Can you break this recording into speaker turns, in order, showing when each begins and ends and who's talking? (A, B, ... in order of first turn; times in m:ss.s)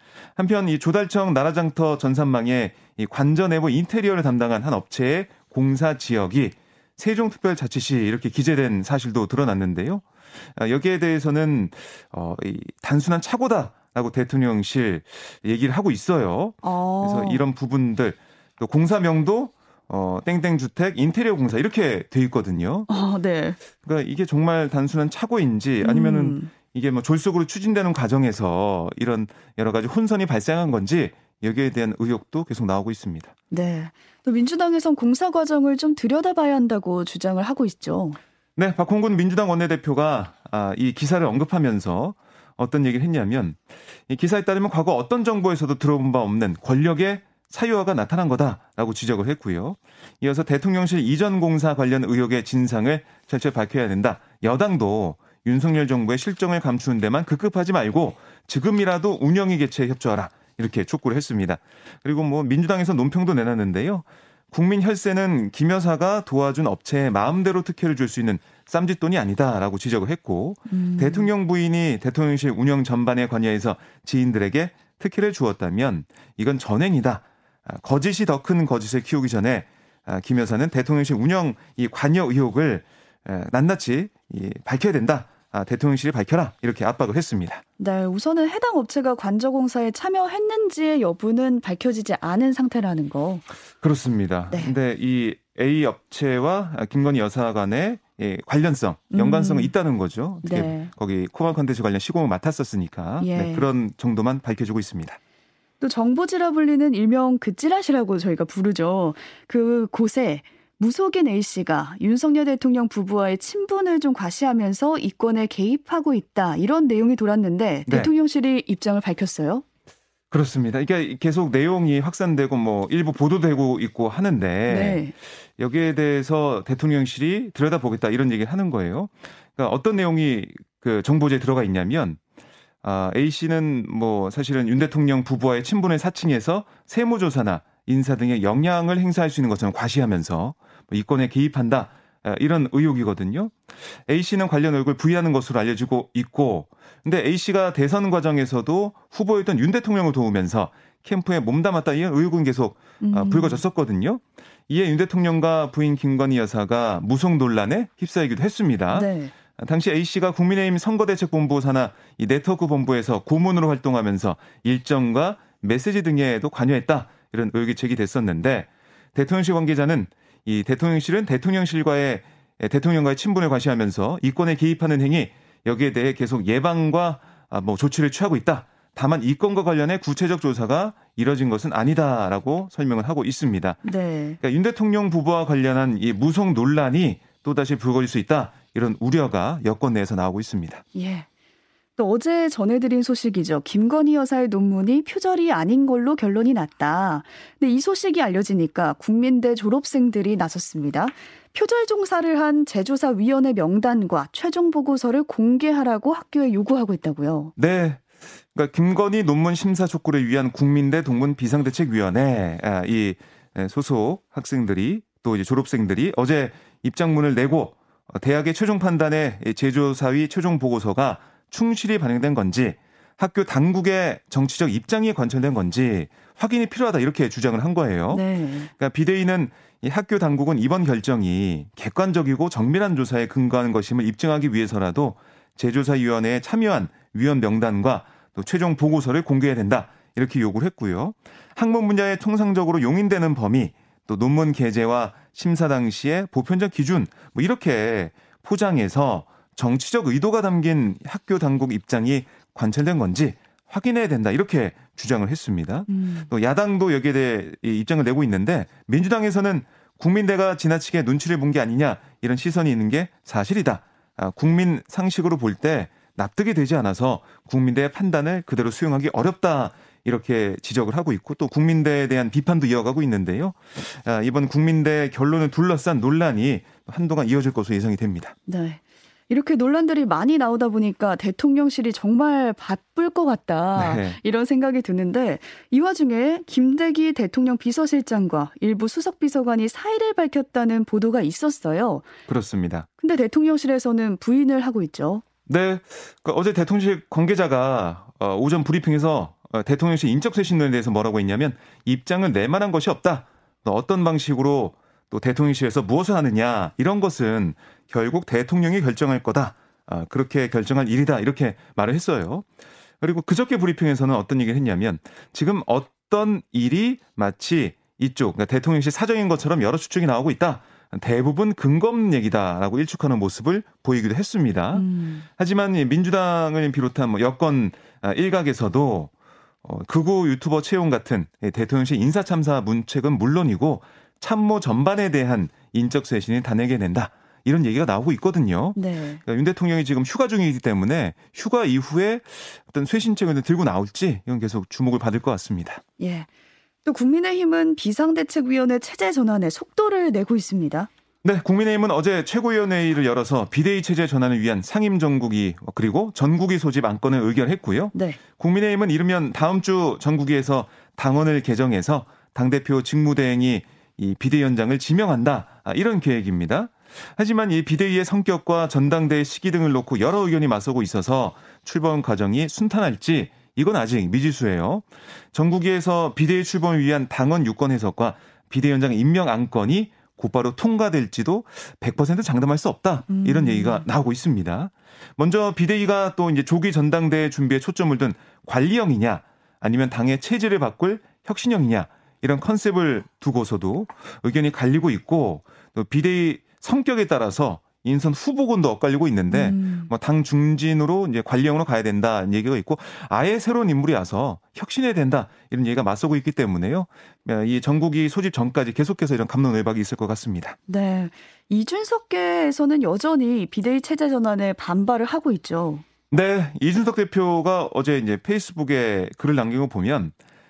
0:00.4-0:10.0 A
0:10.6-0:22.9 A
0:16.6-0:17.4 B
0:22.9-0:23.6 B
0:23.8-0:33.3 A
0:25.8-0:26.5 B
0:33.5-0:38.2 B
0:38.6-1:27.6 A
1:10.7-1:11.3 B
1:27.8-1:33.4 B
1:33.8-1:45.2 A
1:39.1-1:39.7 B
1:40.4-1:40.9 B
1:43.2-1:43.7 B
1:45.8-1:59.6 B
2:00.3-2:12.2 A
2:04.7-2:05.1 B
2:12.8-3:03.8 A
2:33.0-2:33.6 B
2:38.9-2:39.3 B
3:03.8-3:04.4 B
3:04.4-3:10.8 A
3:11.0-3:11.3 B
3:12.0-3:27.5 B
3:27.6-3:48.2 A
3:48.1-3:48.7 B
3:48.8-4:38.3 A
4:15.9-4:16.3 B
4:38.5-4:52.0 B
4:43.8-4:44.2 A
4:52.3-4:52.9 A
4:53.0-4:55.2 B
4:55.5-5:12.5 A
5:13.0-5:24.9 A
5:24.7-5:25.3 B
5:25.4-5:29.1 A
5:29.6-5:45.8 A
5:38.8-5:39.2 B
5:46.0-5:46.3 B
5:46.8-5:50.9 B
5:51.2-6:50.6 A
5:57.9-5:58.2 B
6:23.1-6:23.9 B
6:39.3-6:39.9 B
6:50.7-6:55.8 B
6:56.1-7:00.1 A